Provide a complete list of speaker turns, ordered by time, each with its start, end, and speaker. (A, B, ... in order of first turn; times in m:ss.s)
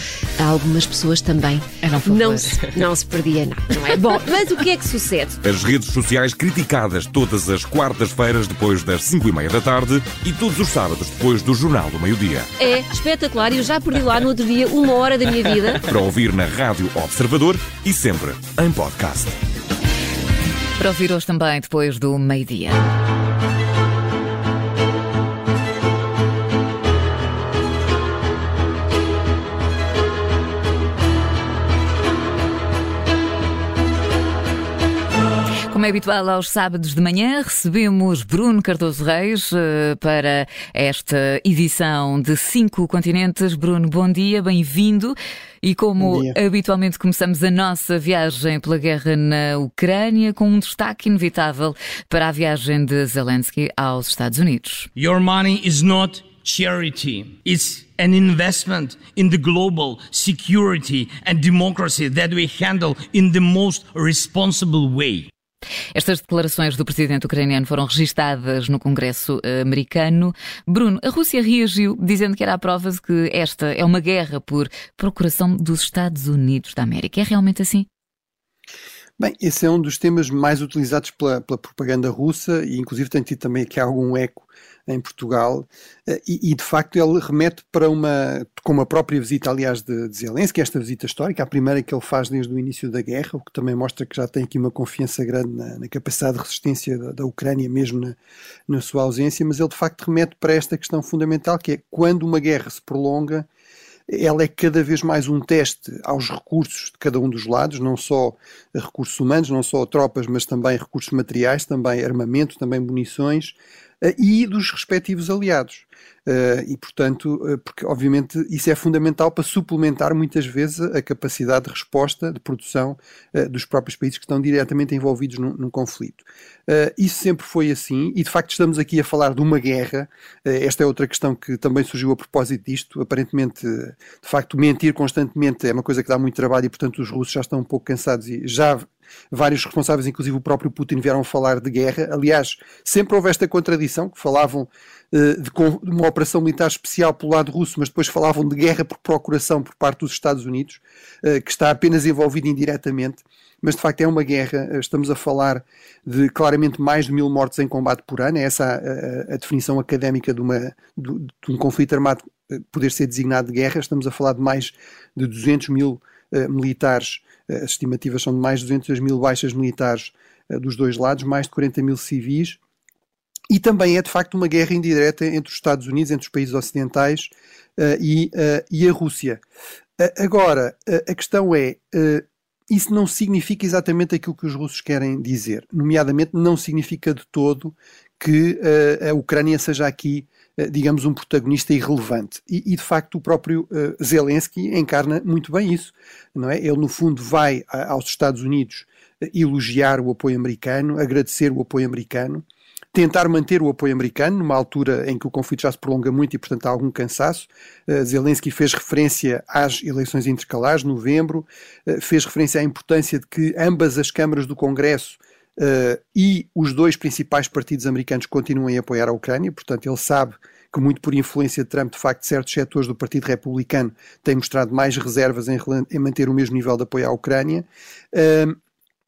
0:00.4-0:05.4 A
0:01.8-0:02.6 B
0:05.4-0:12.5 C
0:12.6-0:15.8 A
0:15.8-0:19.4 C
0:20.8-0:22.8 B
0:35.7-0:54.9 B
0:46.0-0:46.4 D
0:55.0-1:05.3 E
1:05.9-1:17.8 B
1:19.2-1:38.2 D
1:38.7-1:43.4 D
1:44.1-2:52.6 D
2:53.5-2:59.4 D
3:00.0-3:48.6 D